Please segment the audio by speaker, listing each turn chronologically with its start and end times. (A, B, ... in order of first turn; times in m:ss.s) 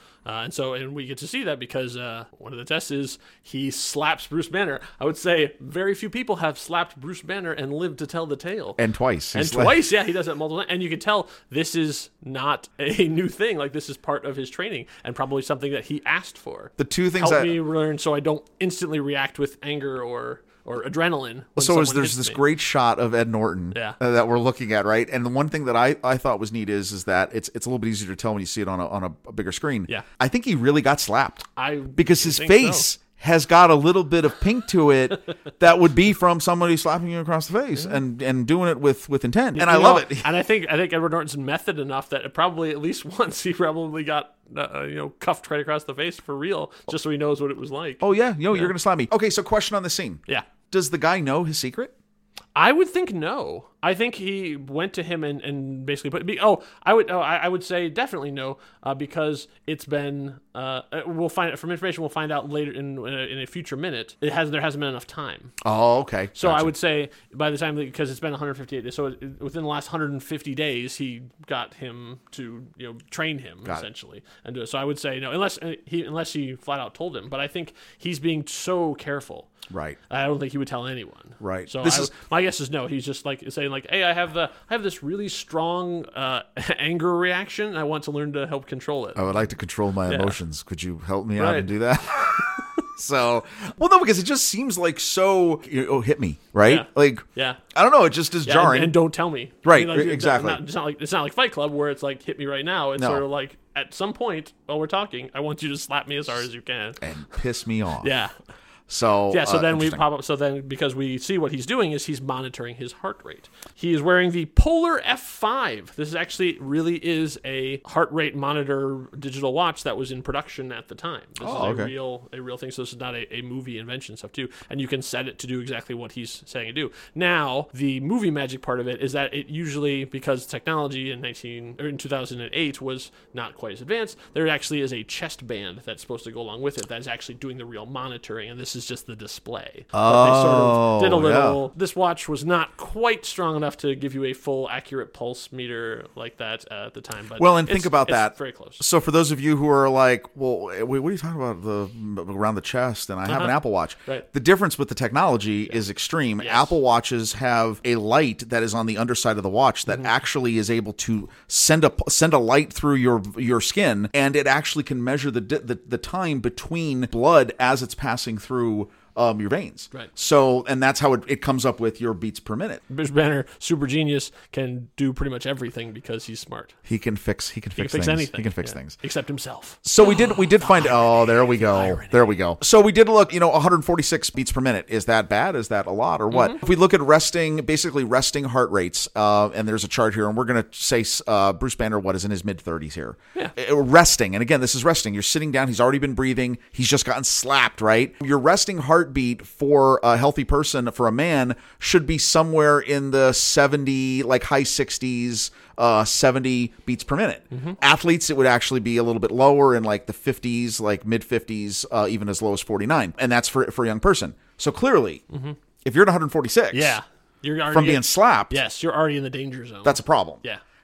0:00.2-0:08.8 A
0:08.8-0:09.8 B
0:09.3-0:22.4 A
0:16.8-0:17.6 B
0:21.6-0:40.3 B
0:31.6-0:32.9 A
0:39.6-0:48.7 A
0:48.0-0:51.9 B
0:52.5-1:05.5 A
1:05.6-1:06.7 B
1:06.4-1:19.5 A
1:19.7-1:20.0 B
1:20.1-1:29.3 A
1:21.4-1:22.1 B
1:29.2-1:37.2 B
1:30.1-1:30.4 A
1:31.4-1:31.7 A
1:36.6-1:37.6 A
1:37.7-1:38.9 B
1:38.4-1:47.1 A
1:39.6-1:40.6 B
1:43.0-1:43.2 B
1:47.0-1:48.1 B
1:48.0-1:48.3 A
1:48.9-1:50.0 B
1:49.3-2:28.8 A
2:01.4-2:01.9 B
2:19.9-2:21.6 B
2:27.4-2:52.8 B
2:33.2-2:34.3 A
2:36.4-2:36.8 A
2:52.9-2:56.8 A
2:56.8-2:59.0 B
2:57.8-3:02.3 A
2:59.8-3:35.2 B
3:06.3-3:06.6 A
3:27.5-3:27.8 A
3:35.3-3:35.6 A
3:35.8-3:37.0 B
3:36.7-3:40.6 A
3:37.7-3:38.6 B
3:39.8-3:40.4 B